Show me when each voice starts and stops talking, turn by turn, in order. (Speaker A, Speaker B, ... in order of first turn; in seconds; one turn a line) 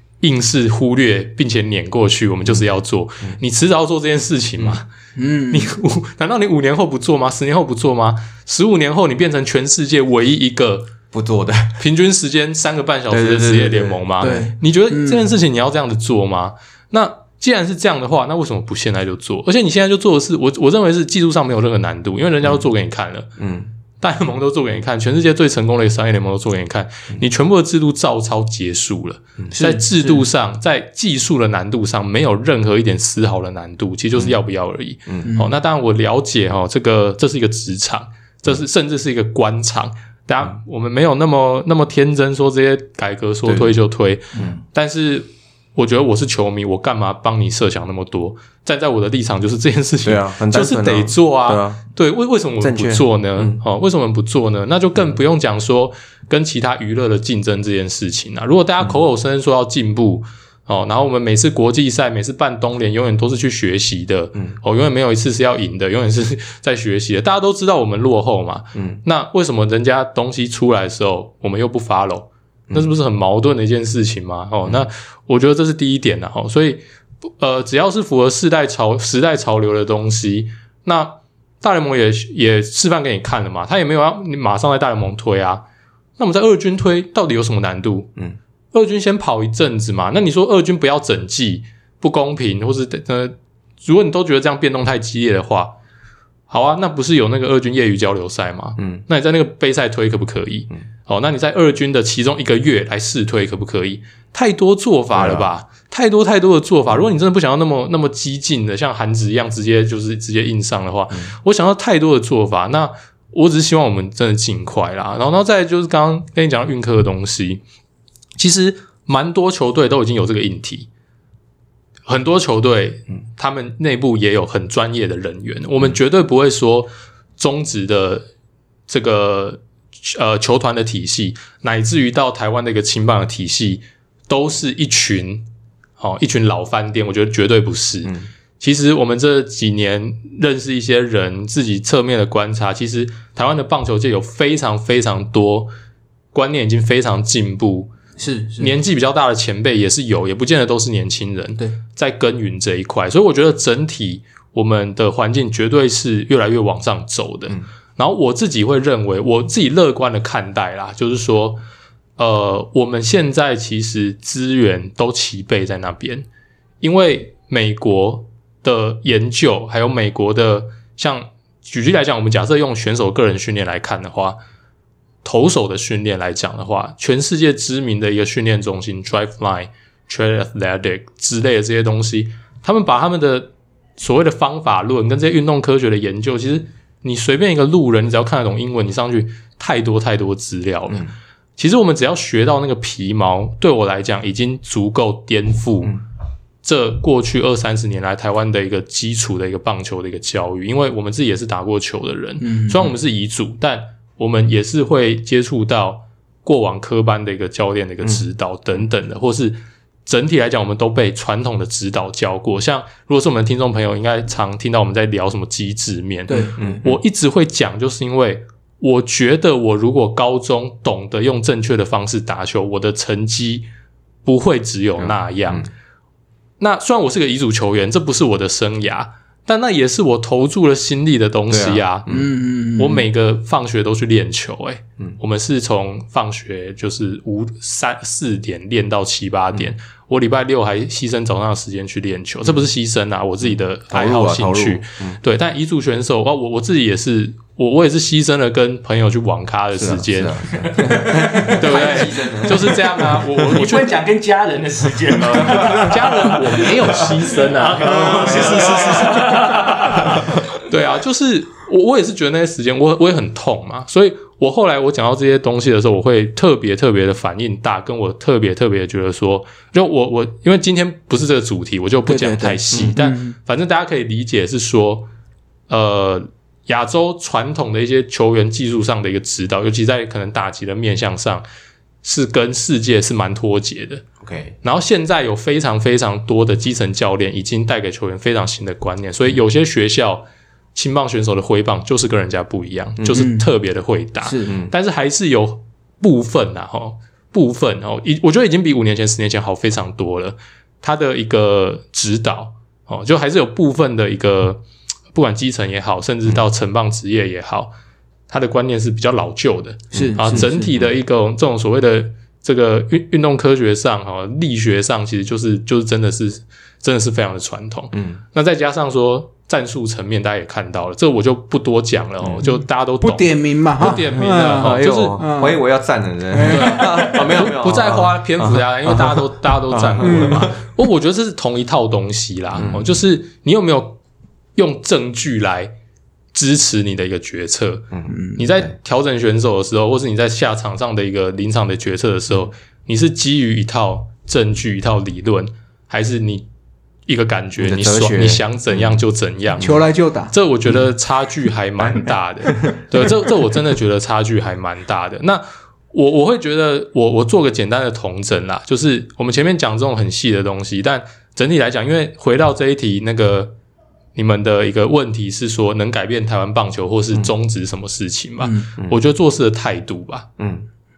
Speaker A: 0.2-4.8
Speaker B: 5.2-5.7
Speaker A: 5.5-10.9
Speaker C: 11.1-11.8
Speaker A: 11.8-23.3
Speaker C: 13.1-14.5
Speaker B: 14.2-15.3
Speaker C: 23.4-23.7
Speaker A: 24.0-76.8
Speaker B: 29.5-30.3
Speaker B: 35.2-35.5
Speaker C: 43.4-43.8
Speaker C: 50.0-51.8
Speaker C: 52.6-53.6
Speaker C: 68.7-69.0
Speaker A: 77.4-85.6
Speaker A: 86.2-88.1
Speaker A: 88.7-95.7
Speaker A: 96.5-117.6
Speaker C: 98.8-99.0
Speaker C: 105.1-105.5
Speaker A: 118.4-120.9
Speaker A: 122.0-128.2
Speaker A: 128.9-135.4
Speaker A: 136.0-145.7
Speaker A: 146.3-147.9
Speaker B: 148.2-148.8
Speaker A: 148.6-161.6
Speaker A: 162.2-166.2
Speaker A: 166.8-174.4
Speaker A: 175.2-196.0
Speaker A: 196.6-223.7
Speaker B: 202.4-202.9
Speaker C: 208.0-208.8
Speaker B: 216.3-216.6
Speaker C: 216.6-217.0
Speaker A: 224.2-225.7
Speaker C: 225.0-225.7
Speaker A: 226.6-232.2
Speaker C: 231.5-232.2
Speaker B: 232.1-233.1
Speaker A: 232.8-254.0
Speaker C: 243.4-245.2
Speaker C: 249.7-253.2
Speaker D: 253.4-260.2
Speaker C: 255.2-256.2
Speaker A: 255.3-275.1
Speaker C: 257.8-259.3
Speaker B: 272.0-273.4
Speaker A: 275.7-281.4
Speaker A: 282.0-284.0
Speaker C: 284.2-284.5
Speaker A: 284.6-307.7
Speaker B: 293.1-293.5
Speaker B: 294.2-294.5
Speaker C: 294.5-294.7
Speaker A: 308.3-325.2
Speaker C: 309.9-310.9
Speaker B: 309.9-310.6
Speaker C: 317.9-318.2
Speaker C: 322.2-322.5
Speaker B: 323.0-325.6
Speaker C: 323.8-330.6
Speaker B: 326.3-327.1
Speaker A: 326.5-334.0
Speaker B: 330.0-330.5
Speaker C: 332.5-333.0
Speaker A: 334.6-335.7
Speaker A: 336.3-346.5
Speaker C: 337.9-338.7
Speaker B: 338.1-338.4
Speaker A: 347.1-349.8
Speaker C: 347.6-349.0
Speaker B: 349.6-350.3
Speaker A: 350.3-363.5
Speaker C: 351.8-353.2
Speaker A: 364.1-370.3
Speaker C: 370.4-370.6